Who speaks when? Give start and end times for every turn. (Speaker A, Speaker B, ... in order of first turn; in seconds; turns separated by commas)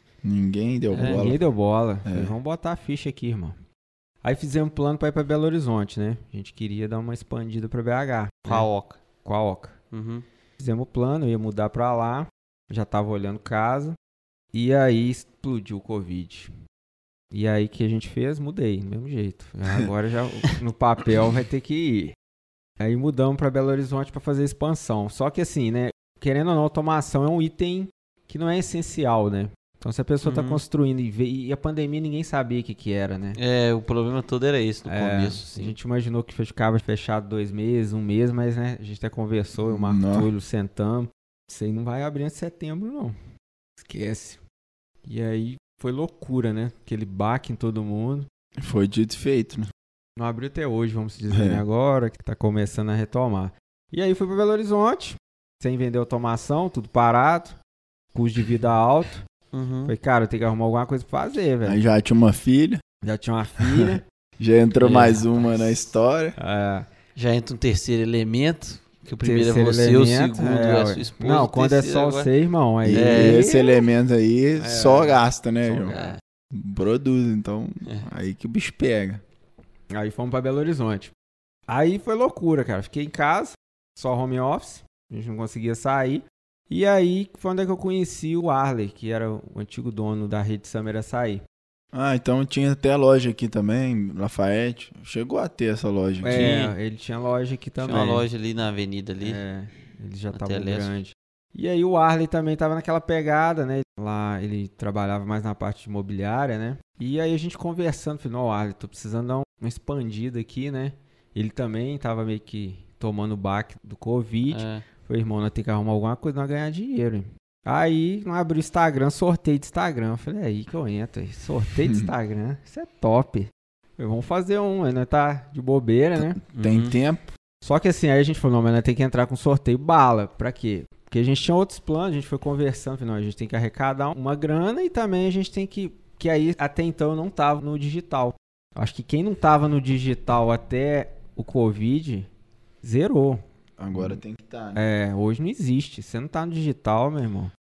Speaker A: 0.2-1.4, Speaker B: 0.9-1.2, Speaker C: 0.9-3.6, Speaker A: 2.0-2.4, Speaker C: 4.2-8.7, Speaker B: 8.5-9.0, Speaker C: 9.2-9.8, Speaker B: 9.9-10.2, Speaker C: 10.6-14.0, Speaker C: 14.5-16.5, Speaker C: 17.3-22.1, Speaker C: 22.8-33.4, Speaker B: 30.2-30.6, Speaker B: 33.4-35.8, Speaker C: 34.9-43.2, Speaker A: 39.6-40.3, Speaker C: 43.8-44.4, Speaker C: 45.0-48.3, Speaker A: 48.6-49.7, Speaker C: 50.2-57.6, Speaker A: 51.3-51.6, Speaker C: 58.1-59.2, Speaker B: 59.5-59.9, Speaker C: 59.9-61.8, Speaker A: 61.6-62.8, Speaker C: 63.0-64.0, Speaker A: 63.8-66.3, Speaker C: 64.8-65.8, Speaker C: 66.4-66.9, Speaker B: 67.2-72.3, Speaker C: 69.2-73.8, Speaker A: 72.8-75.9, Speaker B: 72.9-73.5, Speaker C: 74.6-76.2, Speaker B: 75.9-76.2, Speaker A: 76.5-79.2, Speaker C: 79.9-81.1, Speaker C: 81.7-91.4, Speaker A: 91.9-96.5, Speaker C: 96.2-98.3, Speaker B: 96.3-96.8, Speaker B: 97.8-99.4, Speaker C: 99.2-126.4, Speaker B: 100.3-101.0, Speaker B: 114.5-114.8, Speaker A: 126.2-127.3, Speaker B: 126.5-127.0, Speaker C: 127.6-142.3, Speaker C: 142.8-143.4, Speaker A: 143.8-144.8, Speaker C: 143.9-144.2, Speaker C: 144.8-147.5